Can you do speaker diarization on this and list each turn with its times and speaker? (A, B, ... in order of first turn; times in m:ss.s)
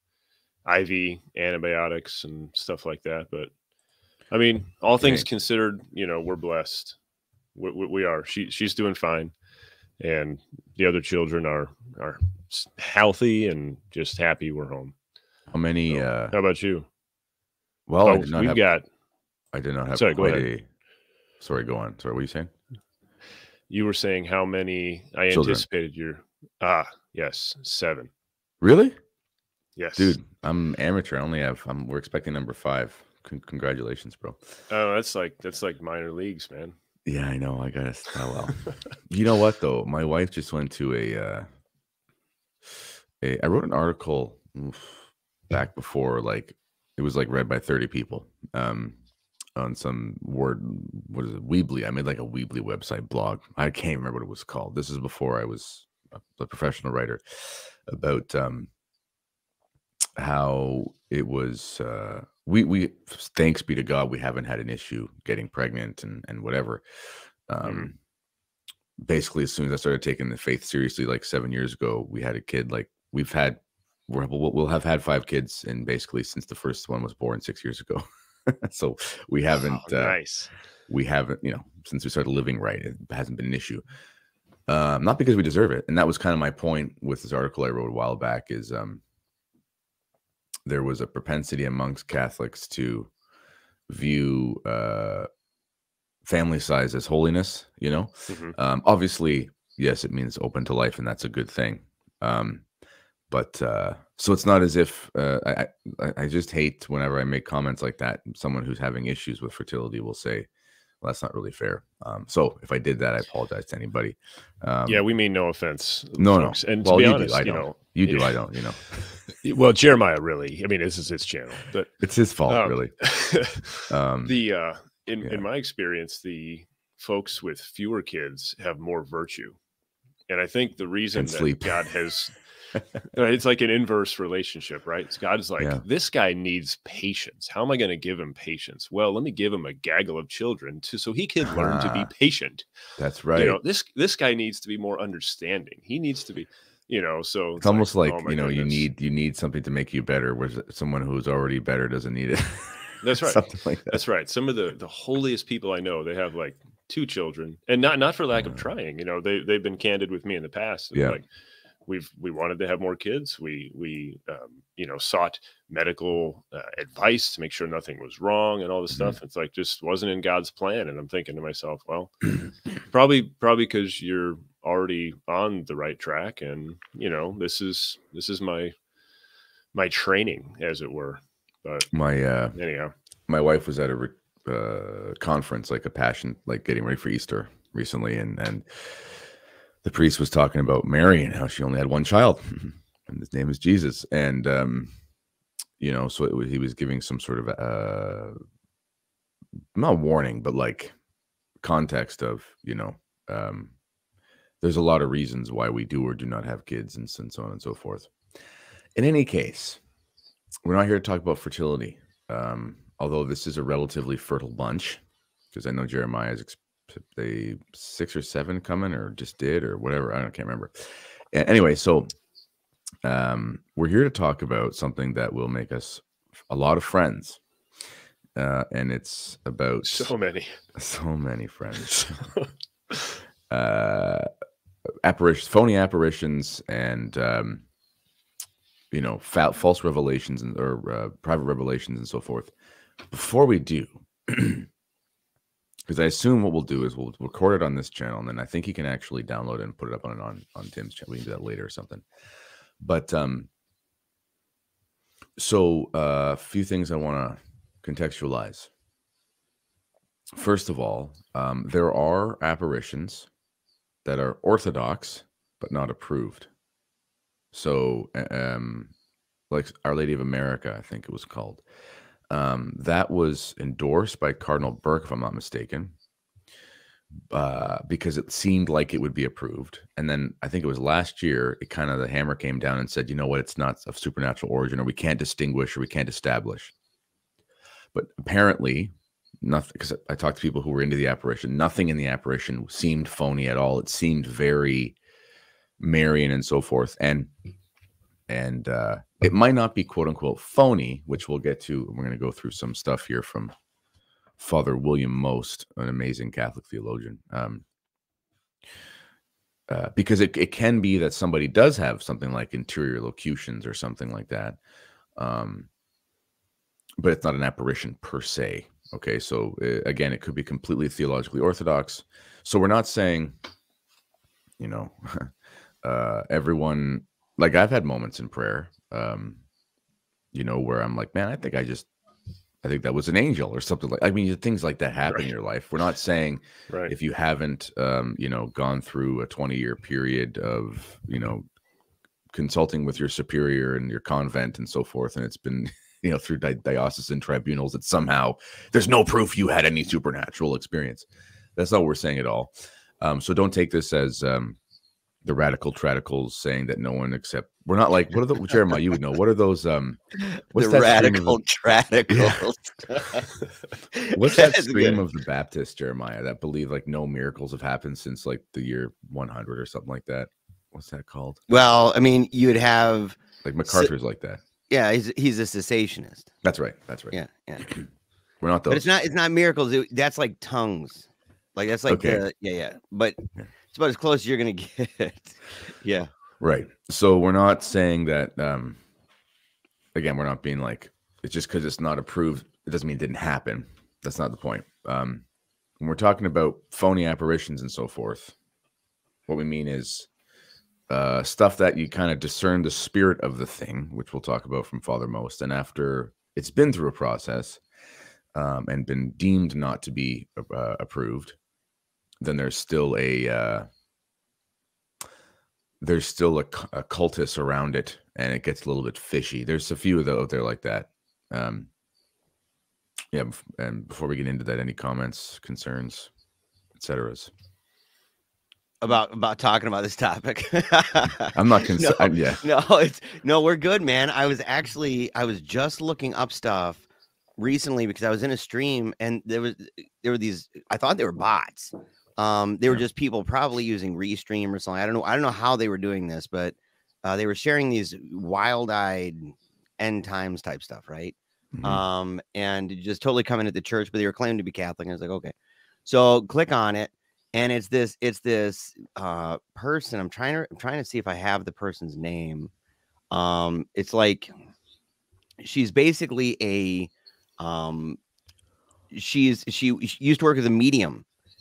0:00.6-0:03.5 A
0:04.3-0:07.0 A
0:05.0-0:05.2 B
0:07.5-0:09.3 A
0:10.0-0:14.9 A
0:15.5-0:16.4 B
0:15.9-0:16.8 A
0:17.9-0:18.6 B
0:18.0-0:18.8 A
0:19.5-0:20.7 B
0:19.9-0:20.5 A
0:21.4-0:22.5 B
0:23.7-0:28.1 A
0:25.3-0:25.6 B
0:28.6-0:29.0 B
0:29.8-0:30.2 A
0:30.0-0:34.4 B
0:34.7-0:36.7 A
0:37.0-0:41.5 B
0:43.2-0:49.0 B
0:49.6-0:58.7 B
1:00.2-1:06.8 B
1:07.5-1:07.9 B
1:07.6-1:07.9 A
1:09.0-1:20.2 B
1:19.8-1:20.5 A
1:20.9-1:23.8 B
1:24.7-1:29.0 B
1:30.6-1:33.1 B
1:33.9-1:35.3 B
1:36.2-1:42.6 B
1:38.3-1:38.6 A
1:43.3-1:50.5 B
1:51.0-1:55.0 B
1:54.9-1:58.3 A
1:56.2-1:59.0 B
1:59.4-2:01.9 A
2:02.0-2:02.9 B
2:02.5-2:09.6 A
2:03.9-2:04.3 B
2:10.3-2:12.4 A
2:11.2-2:11.9 B
2:13.1-2:22.6 A
2:15.6-2:15.8 B
2:21.5-2:22.1 B
2:23.0-2:23.6 B
2:23.3-2:28.8 A
2:27.6-2:34.0 B
2:33.0-2:41.2 A
2:38.3-2:38.6 B
2:41.8-2:58.7 A
2:48.9-2:49.2 B
2:59.7-3:01.9 A
3:01.9-3:02.6 B
3:02.5-3:02.9 A
3:03.3-3:09.1 B
3:09.8-3:14.9 B
3:15.8-3:18.4 B
3:19.7-3:20.9 B
3:21.6-3:23.7 B
3:24.6-3:28.1 B
3:29.0-3:29.8 B
3:30.6-3:35.0 B
3:35.5-3:42.1 B
3:43.0-3:47.4 B
3:48.4-3:50.1 B
3:49.8-3:50.6 A
3:50.8-3:52.2 B
3:51.9-3:53.1 A
3:53.5-3:54.3 B
3:55.0-3:57.6 B
3:58.9-4:02.5 B
4:03.1-4:04.7 B
4:05.9-4:12.0 B
4:12.8-4:13.5 B
4:15.4-4:18.7 B
4:20.4-4:23.3 B
4:24.0-4:26.5 B
4:27.5-4:28.9 B
4:29.5-4:31.6 B
4:32.3-4:35.9 B
4:37.3-4:46.7 B
4:47.9-4:55.0 B
4:55.8-4:57.3 B
4:58.3-5:03.5 B
5:04.4-5:07.6 B
5:09.7-5:14.6 B
5:15.2-5:15.7 B
5:17.0-5:23.3 B
5:24.6-5:25.3 B
5:25.8-5:29.4 B
5:30.3-5:31.9 B
5:32.6-5:41.4 B
5:42.3-5:54.6 B
5:55.2-6:01.4 B
6:00.5-6:03.2 C
6:02.1-6:02.4 B
6:03.9-6:05.0 C
6:04.1-6:11.4 B
6:11.5-6:13.9 C
6:13.4-6:14.4 B
6:14.7-6:16.3 C
6:16.4-6:17.8 B
6:17.1-6:17.7 C
6:18.4-6:18.9 B
6:18.7-6:23.2 C
6:21.9-6:22.2 B
6:23.7-6:26.1 C
6:26.4-6:28.8 B
6:29.9-6:35.2 B
6:35.8-6:38.3 B
6:39.3-6:40.1 B
6:40.9-6:47.6 B
6:48.3-6:51.4 B
6:52.2-6:53.7 B
6:55.8-7:01.7 B
7:03.1-7:06.1 B
7:06.8-7:07.3 B
7:08.8-7:16.8 C
7:11.3-7:12.4 B
7:17.4-7:35.3 C
7:31.5-7:31.8 B
7:35.8-7:42.5 C
7:43.1-7:44.3 C
7:45.4-7:48.0 C
7:48.9-7:51.0 C